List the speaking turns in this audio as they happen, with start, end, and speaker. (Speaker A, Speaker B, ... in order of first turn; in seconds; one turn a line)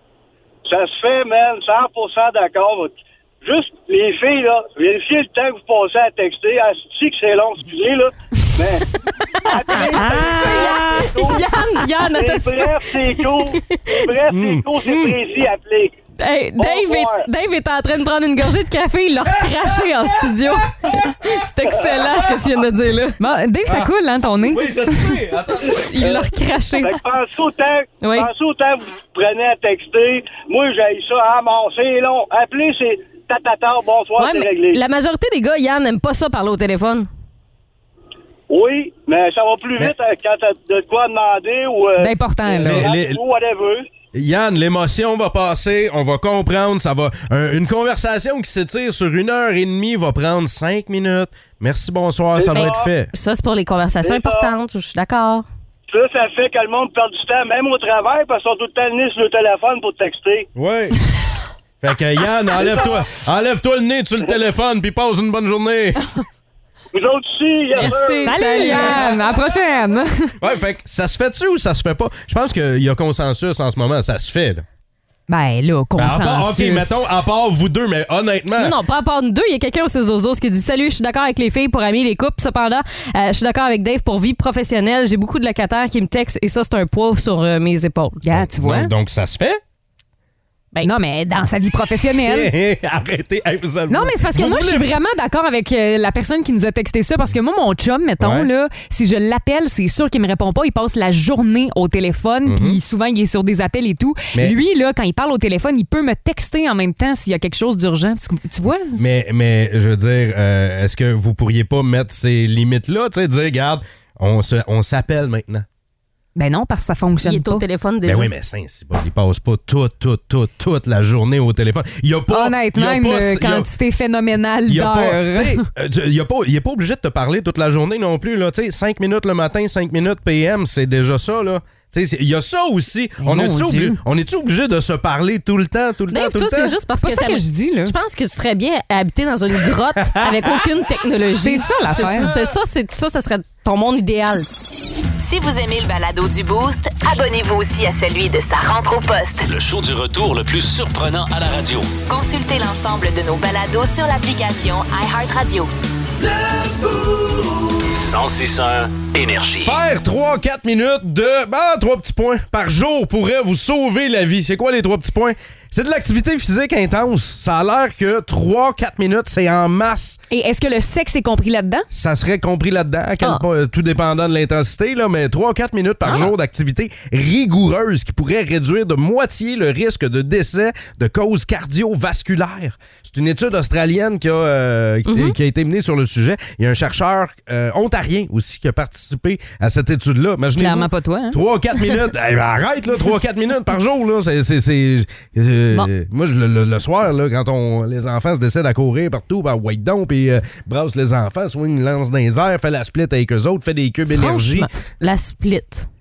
Speaker A: 0.7-8.9
Speaker A: 9.4-11.5
Speaker B: 9.6-14.1
Speaker C: 9.8-11.3
Speaker A: 12.1-15.9
Speaker D: 14.3-14.7
Speaker B: 16.2-23.2
Speaker A: 16.6-17.3
Speaker D: 19.3-20.9
Speaker C: 23.2-25.1
Speaker D: 24.4-26.1
Speaker B: 25.7-27.0
Speaker A: 26.0-26.3
Speaker A: 26.8-34.8
Speaker B: 28.0-28.3
Speaker B: 34.2-37.1
Speaker A: 38.5-43.8
Speaker C: 42.0-42.9
Speaker D: 42.5-43.2
Speaker D: 44.1-53.1
Speaker A: 52.4-52.9
Speaker B: 52.5-55.5
Speaker A: 54.0-54.5
Speaker A: 55.9-60.5
Speaker D: 60.5-61.0
Speaker D: 61.8-66.0
Speaker A: 62.5-63.1
Speaker A: 66.9-68.8
Speaker B: 67.8-69.2
Speaker C: 68.2-70.4
Speaker D: 70.4-74.7
Speaker C: 75.3-77.0
Speaker D: 76.0-78.8
Speaker B: 78.6-88.2
Speaker C: 88.2-88.9
Speaker D: 88.3-89.6
Speaker C: 90.8-92.5
Speaker D: 92.2-94.9
Speaker C: 93.9-109.1
Speaker D: 98.2-98.5
Speaker D: 102.5-102.8
Speaker D: 108.9-115.7
Speaker C: 116.3-117.7
Speaker B: 117.2-118.3
Speaker D: 118.1-123.7
Speaker C: 122.3-125.6
Speaker D: 124.7-136.8
Speaker C: 133.2-134.0
Speaker B: 136.1-144.5
Speaker C: 137.0-137.9
Speaker D: 140.1-140.6
Speaker C: 141.4-142.3
Speaker E: 145.2-149.5
Speaker F: 149.4-151.9
Speaker E: 152.1-155.7
Speaker D: 156.5-157.1
Speaker F: 157.9-159.8
Speaker D: 159.6-170.2
Speaker C: 170.3-171.9
Speaker D: 171.9-204.7
Speaker B: 185.1-185.3
Speaker C: 190.6-191.4
Speaker B: 204.1-205.9